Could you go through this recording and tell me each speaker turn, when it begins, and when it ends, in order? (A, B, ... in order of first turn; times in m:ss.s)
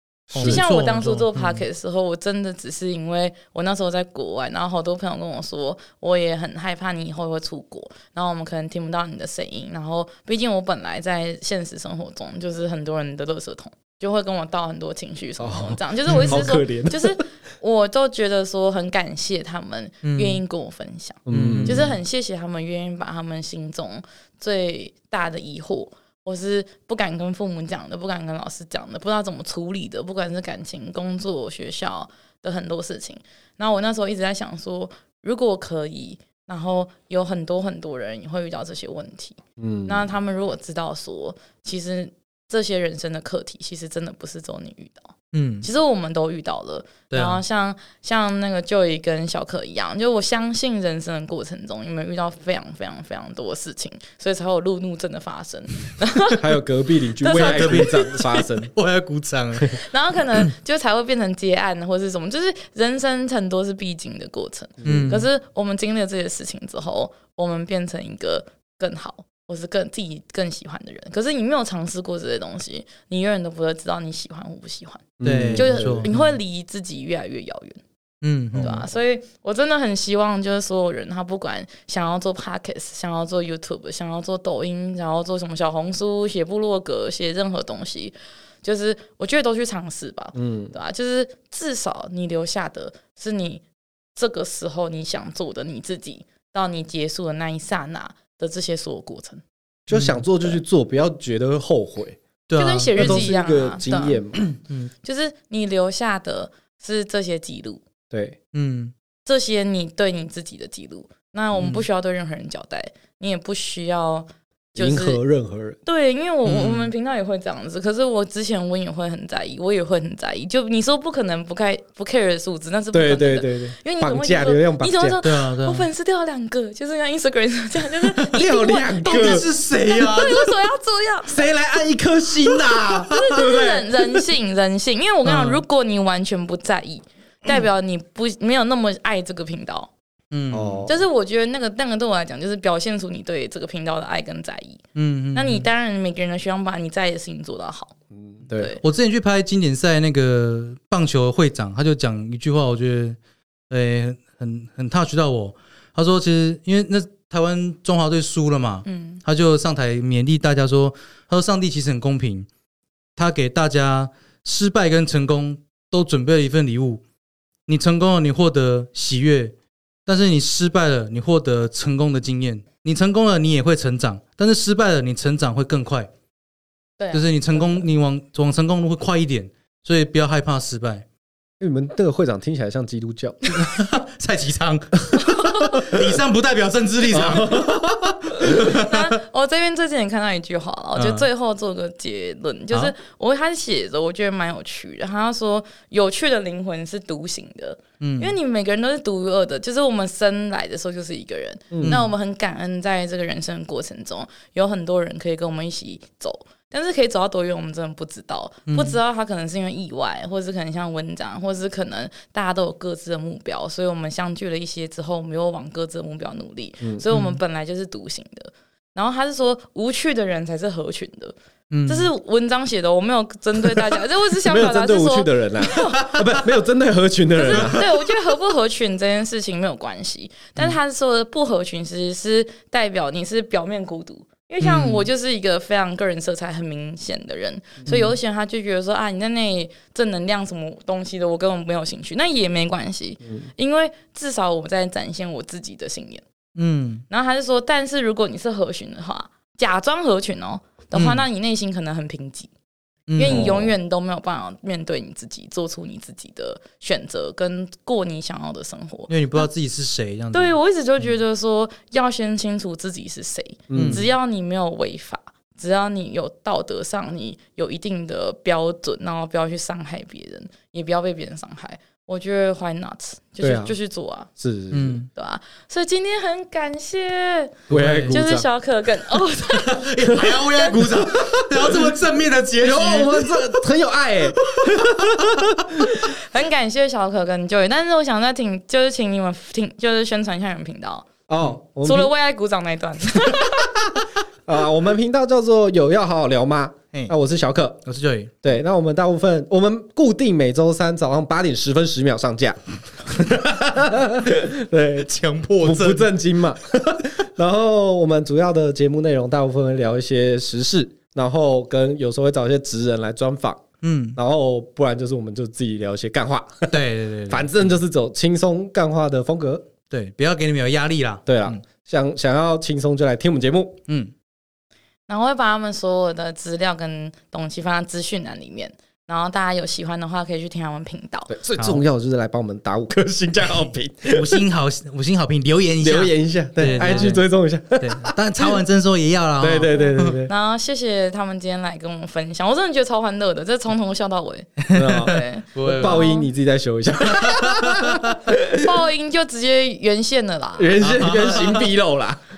0:00.3-0:00.6 A
0:00.3-0:01.6 B
0:00.4-0:56.6 C
0:15.4-0:17.2 A
0:16.1-0:16.4 B
0:20.0-0:20.4 B
0:21.3-0:21.9 A
0:21.3-0:21.9 B
0:39.6-0:40.0 A
0:45.3-0:45.7 B
0:47.1-0:47.4 B
0:56.4-0:58.7 A
0:57.2-0:58.4 C
0:57.3-0:58.2 B
0:58.7-0:59.8 B
0:59.7-1:17.8 C
1:04.8-1:05.1 A
1:04.8-1:05.3 B
1:15.2-1:16.1 A
1:15.2-1:16.3 B
1:18.2-1:18.8 B
1:18.5-1:18.9 A
1:18.6-1:33.6 C
1:30.3-1:30.7 A
1:34.2-1:39.4 C
1:39.9-1:42.2 A
1:39.9-1:40.2 B
1:42.5-1:43.3 B
1:42.5-1:44.4 C
1:43.0-1:44.4 A
1:44.3-1:44.9 B
1:45.0-1:47.8 C
1:48.1-1:48.4 A
1:48.5-1:48.9 B
1:49.2-1:55.2 C
1:51.5-1:51.8 B
1:54.8-1:55.8 A
1:55.8-2:11.5 C
1:56.4-1:56.9 B
2:02.9-2:05.2 A
2:05.2-2:05.9 B
2:08.0-2:08.4 B
2:08.3-2:09.5 A
2:09.0-2:10.5 B
2:11.2-2:14.0 A
2:12.8-2:19.9 C
2:15.2-2:15.6 B
2:20.3-2:20.9 B
2:20.5-2:21.0 A
2:20.9-2:27.9 C
2:25.0-2:25.7 B
2:28.1-2:28.8 A
2:28.5-2:28.8 C
2:28.8-2:33.2 B
2:33.7-2:42.5 B
2:38.8-2:39.2 C
2:43.2-2:47.0 B
2:47.7-2:49.5 B
2:50.0-2:56.1 B
2:57.0-2:57.8 C
2:57.1-3:01.0 B
3:01.6-3:03.7 A
3:03.4-3:08.9 B
3:05.2-3:05.9 C
3:05.7-3:06.0 A
3:07.1-3:08.6 A
3:08.4-3:41.3 C
3:11.0-3:11.3 B
3:18.0-3:18.3 B
3:21.7-3:22.0 A
3:21.8-3:22.1 B
3:28.7-3:29.0 B
3:37.1-3:37.4 B
3:41.7-3:42.1 B
3:41.8-3:46.1 C
3:44.4-3:47.8 A
3:47.3-4:06.2 C
3:47.5-3:47.8 B
3:54.6-3:55.1 B
3:57.8-3:58.1 A
4:06.6-4:07.0 B
4:07.1-4:12.5 C
4:10.9-4:11.2 B
4:13.1-4:13.6 B
4:13.2-4:19.5 C
4:13.2-4:13.7 A
4:19.1-4:20.6 B
4:20.3-4:34.3 C
4:23.7-4:24.1 A
4:23.7-4:24.0 B
4:33.4-4:33.8 A
4:34.4-4:35.0 A
4:34.7-4:35.1 B
4:35.1-4:40.8 C
4:37.7-4:38.2 B
4:37.7-4:38.5 A
4:39.5-4:43.6 B
4:41.2-4:41.9 A
4:42.6-4:45.9 A
4:44.4-4:45.4 B
4:46.0-4:51.1 C
4:51.3-4:52.1 A
4:51.8-4:53.7 C
4:54.5-4:57.8 A
4:57.8-4:58.3 B
4:58.4-5:05.1 A
5:05.0-5:06.1 B
5:05.6-5:13.6 A
5:13.8-5:14.2 B
5:14.2-5:19.7 A
5:16.7-5:17.5 B
5:19.9-5:21.6 B
5:21.3-5:23.8 A
5:25.1-5:31.3 C
5:31.3-5:34.4 A
5:31.6-5:31.8 B
5:34.0-5:37.2 B
5:35.8-5:38.6 A
5:36.6-5:37.2 C
5:37.8-5:40.2 B
5:39.4-5:40.3 A
5:39.7-5:46.2 C
5:44.7-5:46.1 B
5:44.7-5:48.7 A
5:47.2-5:48.1 B
5:48.5-5:50.8 C
5:50.6-5:52.2 A
5:50.8-5:51.7 B